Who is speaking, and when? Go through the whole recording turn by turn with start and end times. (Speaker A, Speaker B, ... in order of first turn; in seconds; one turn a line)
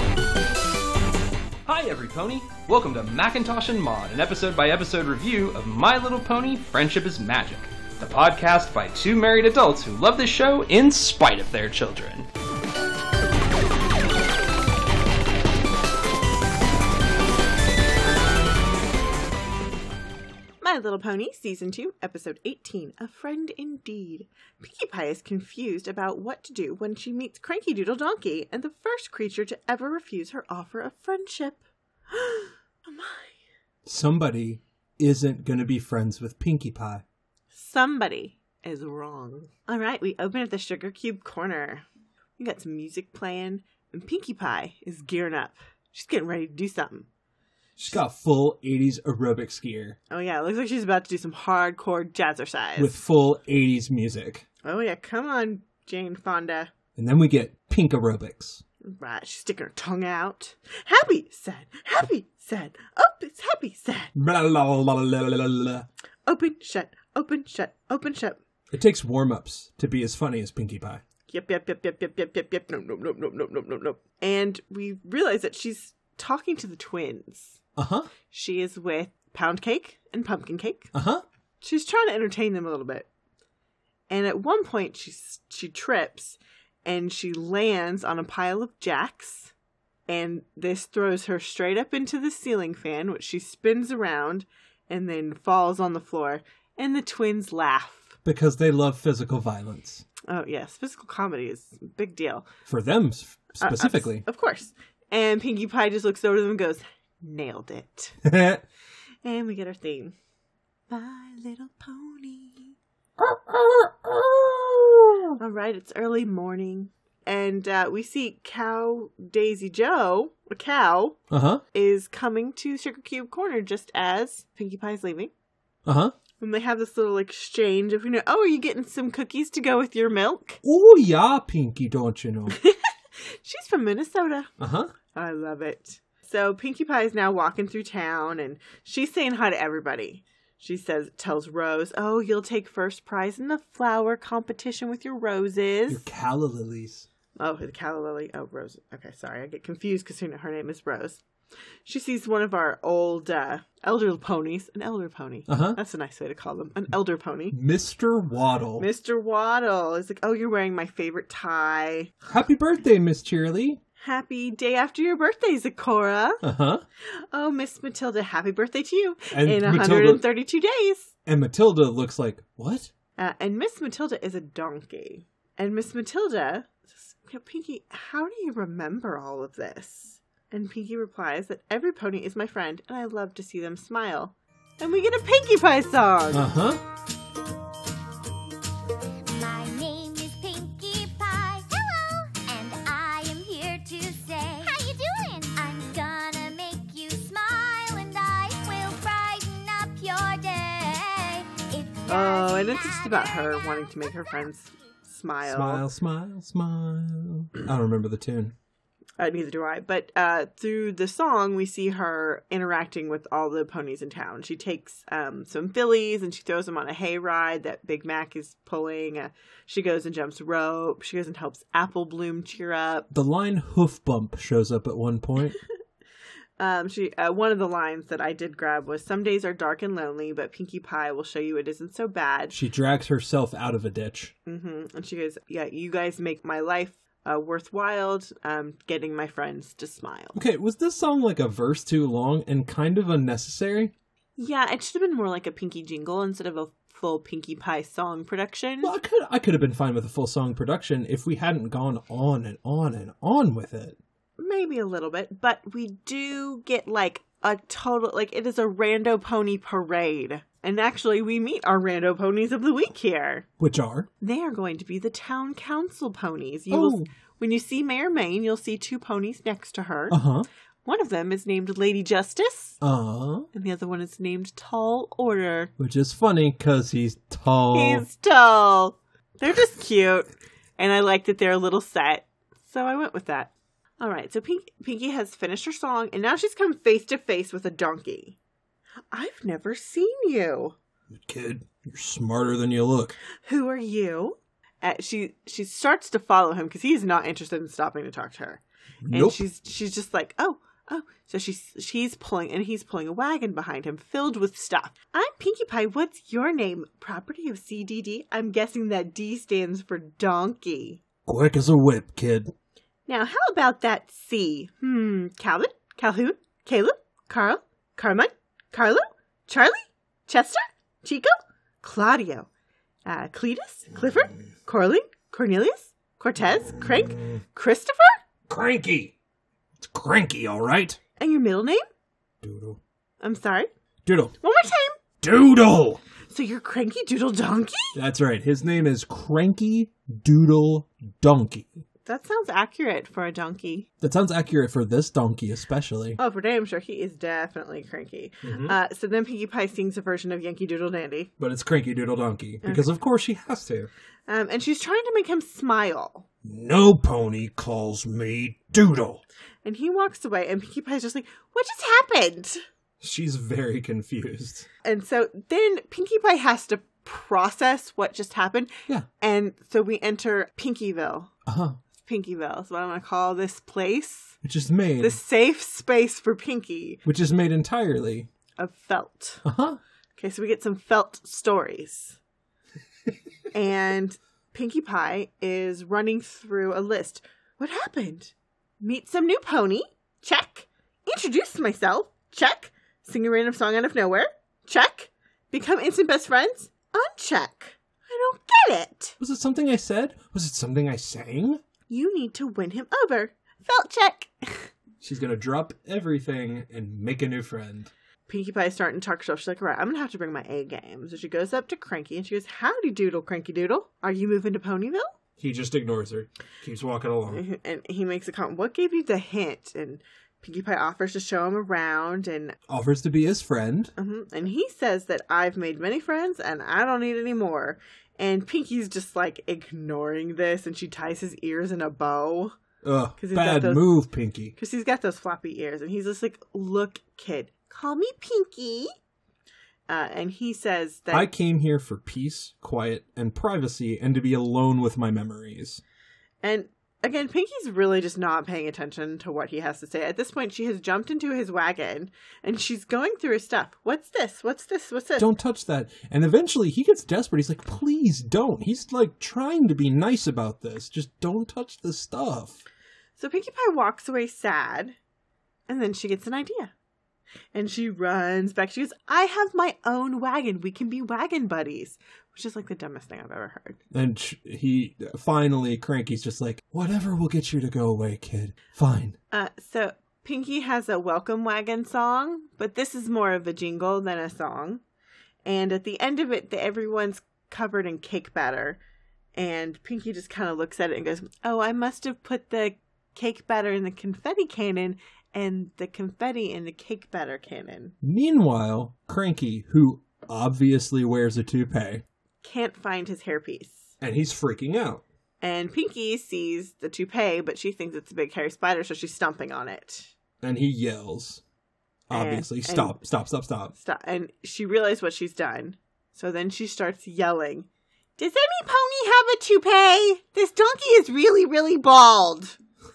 Speaker A: 1.6-12.3
Speaker B: 20.6-33.4
Speaker C: 33.9-37.0
Speaker B: 37.5-41.9
Speaker B: 42.4-47.1
Speaker C: 47.8-50.0
Speaker B: 50.1-53.0
Speaker C: 52.8-54.5
Speaker B: 54.6-56.7
Speaker C: 57.0-58.6
Speaker B: 58.8-64.1
Speaker C: 64.1-65.9
Speaker B: 66.2-68.4
Speaker C: 68.7-71.0
Speaker B: 71.3-77.6
Speaker C: 77.8-78.1
Speaker B: 78.3-80.9
Speaker C: 80.9-81.2
Speaker B: 81.6-83.1
Speaker B: 84.1-89.5
Speaker B: 90.1-98.2
Speaker C: 98.2-100.0
Speaker B: 100.3-102.5
Speaker C: 102.7-104.2
Speaker B: 103.6-108.2
Speaker C: 108.2-108.6
Speaker B: 109.2-110.1
Speaker B: 110.9-112.7
Speaker C: 113.2-115.3
Speaker B: 115.4-121.2
Speaker C: 121.3-121.6
Speaker B: 121.7-125.3
Speaker C: 125.8-126.1
Speaker B: 126.4-130.6
Speaker C: 130.6-132.6
Speaker B: 132.5-134.5
Speaker C: 134.6-134.9
Speaker B: 135.1-146.1
Speaker C: 145.9-147.1
Speaker B: 147.3-151.2
Speaker B: 151.8-157.5
Speaker C: 155.5-155.8
Speaker C: 157.5-158.9
Speaker B: 158.8-162.1
Speaker C: 162.2-163.8
Speaker B: 164.0-166.4
Speaker C: 166.4-166.8
Speaker B: 167.3-171.1
Speaker C: 169.3-170.2
Speaker C: 171.2-172.9
Speaker B: 173.2-186.5
Speaker C: 186.3-186.8
Speaker D: 189.3-203.7
Speaker B: 202.1-205.9
Speaker C: 205.4-208.5
Speaker B: 209.2-223.1
Speaker C: 223.1-225.6
Speaker B: 226.6-232.6
Speaker C: 232.5-234.3
Speaker B: 234.4-240.4
Speaker C: 240.3-243.9
Speaker B: 244.4-248.9
Speaker C: 248.8-254.0
Speaker B: 254.4-263.5
Speaker C: 263.6-264.1
Speaker B: 264.2-270.2
Speaker C: 266.7-267.1
Speaker C: 270.1-270.5
Speaker B: 270.8-272.8
Speaker C: 272.8-273.5
Speaker B: 273.5-275.7
Speaker C: 275.8-278.1
Speaker B: 277.7-288.4
Speaker B: 289.1-290.8
Speaker C: 291.1-293.1
Speaker B: 293.4-311.0
Speaker C: 299.0-299.4
Speaker C: 311.2-312.5
Speaker B: 313.1-322.5
Speaker B: 323.1-328.2
Speaker C: 328.5-329.1
Speaker C: 329.8-331.0
Speaker B: 331.2-331.8
Speaker C: 332.4-332.8
Speaker B: 333.2-333.7
Speaker C: 334.0-334.4
Speaker B: 334.4-334.9
Speaker C: 335.2-336.0
Speaker B: 336.3-337.9
Speaker C: 337.9-341.8
Speaker B: 342.0-343.9
Speaker C: 344.0-346.2
Speaker B: 346.2-351.3
Speaker C: 348.4-348.8
Speaker C: 351.4-353.9
Speaker B: 352.6-352.9
Speaker B: 354.3-356.2
Speaker C: 356.4-359.2
Speaker B: 359.6-362.6
Speaker C: 363.0-364.7
Speaker B: 364.8-371.3
Speaker C: 371.4-371.8
Speaker B: 372.0-374.4
Speaker C: 374.4-375.2
Speaker B: 375.0-377.0
Speaker C: 377.0-378.3
Speaker B: 378.6-379.4
Speaker C: 379.4-379.8
Speaker B: 380.1-382.2
Speaker B: 383.5-399.2
Speaker C: 399.2-401.6
Speaker B: 401.9-404.7
Speaker C: 405.0-407.9
Speaker B: 408.3-415.1
Speaker C: 415.4-417.4
Speaker B: 417.3-422.6
Speaker C: 422.7-423.9
Speaker B: 423.9-432.5
Speaker C: 432.8-434.5
Speaker B: 433.2-433.9
Speaker B: 434.6-438.9
Speaker B: 439.9-441.3
Speaker C: 441.1-445.8
Speaker B: 446.4-455.3
Speaker C: 455.2-462.6
Speaker B: 463.2-464.9
Speaker B: 465.7-466.7
Speaker B: 467.5-473.8
Speaker C: 473.9-479.1
Speaker B: 479.3-484.8
Speaker B: 485.4-488.8
Speaker B: 489.3-497.9
Speaker C: 498.0-502.0
Speaker B: 502.4-503.9
Speaker C: 504.0-505.0
Speaker B: 505.4-510.1
Speaker C: 510.4-511.4
Speaker C: 512.1-513.7
Speaker B: 512.1-513.0
Speaker B: 513.7-522.6